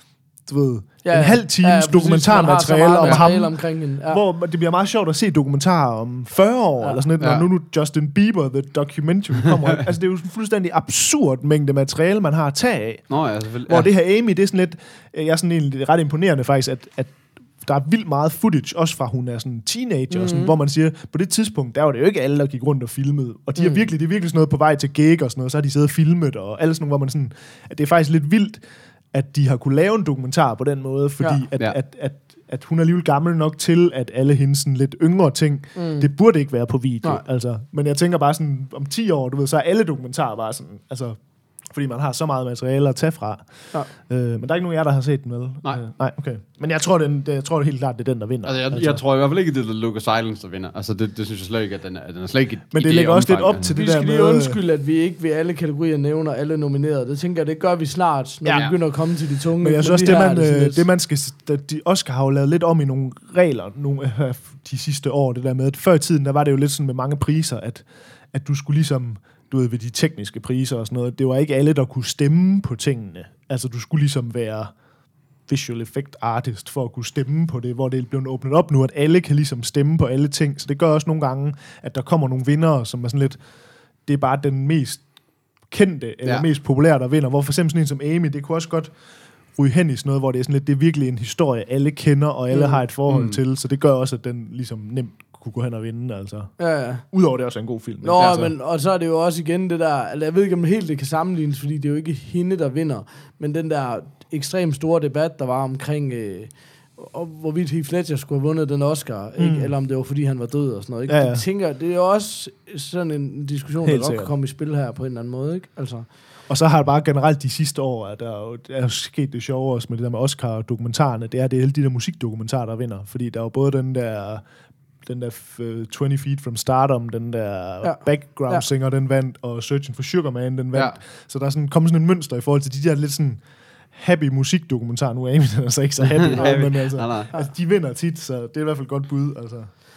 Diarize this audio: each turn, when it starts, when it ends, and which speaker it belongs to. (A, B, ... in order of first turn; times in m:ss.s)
0:00.4-0:49.0 A
0:01.0-0:04.2 B
0:07.2-0:07.5 C
0:13.1-0:13.9 C
0:20.1-0:20.5 B
0:23.6-0:23.9 B
0:35.8-0:36.1 B
0:48.4-0:53.8 C
0:52.7-0:54.6 A
0:53.7-1:00.8 B
0:58.4-0:58.7 A
0:59.6-1:14.7 A
1:15.5-1:23.4 A
1:24.0-1:25.0 A
1:25.7-1:29.0 A
1:29.5-1:38.5 A
1:32.5-1:32.8 B
1:33.1-1:33.4 C
1:36.6-1:37.0 B
1:38.0-1:56.1 B
1:38.2-1:38.5 C
1:49.4-1:49.7 A
1:51.1-1:51.4 A
1:53.8-1:54.3 A
1:56.5-2:04.4 A
2:05.0-2:19.7 A
2:07.8-2:08.6 B
2:16.1-2:17.3 C
2:16.4-2:16.6 B